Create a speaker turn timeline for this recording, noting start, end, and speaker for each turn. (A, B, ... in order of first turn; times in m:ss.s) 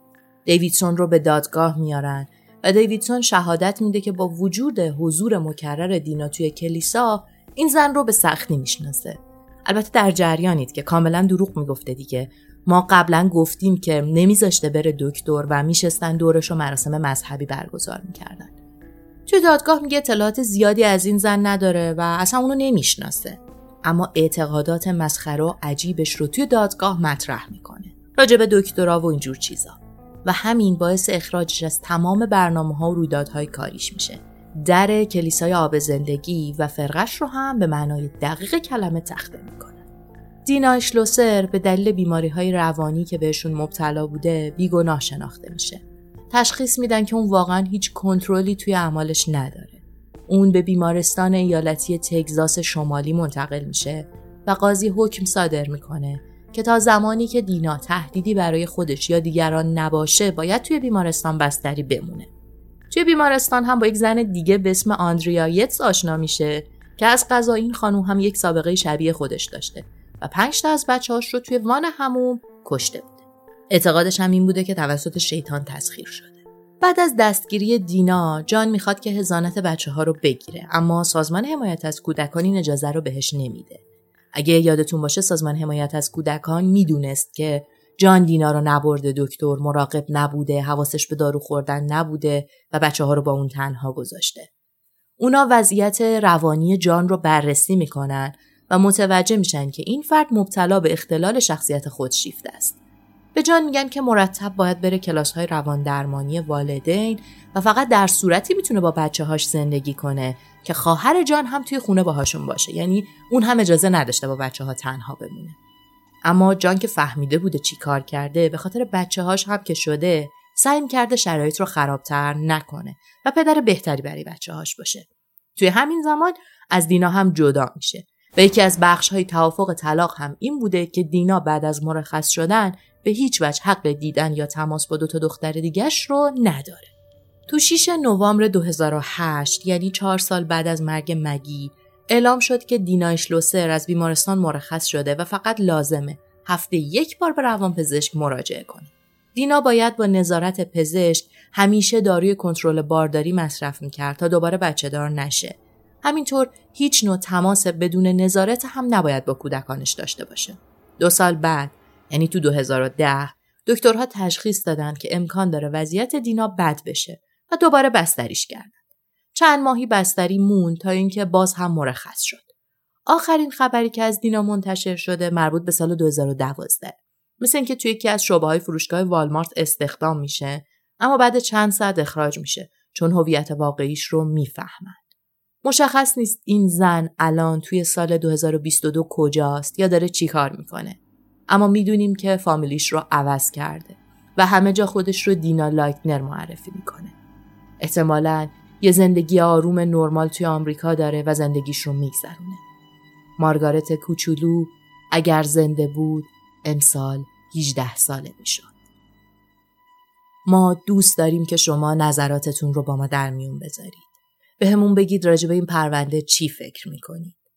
0:00.4-0:18.5 A
0:19.3-0:39.8 A
0:40.4-1:02.3 A
1:02.9-1:23.8 A
1:24.3-1:34.5 A
1:35.2-1:42.8 A
1:43.3-1:55.6 A
1:56.2-2:05.0 A
2:05.6-2:16.9 A
2:17.5-2:48.7 A
2:49.4-2:52.5 A
2:53.1-3:05.0 A
3:05.6-3:17.1 A
3:17.8-3:22.6 A
3:23.4-3:28.7 A
3:30.5-3:34.1 A
3:34.6-3:37.3 A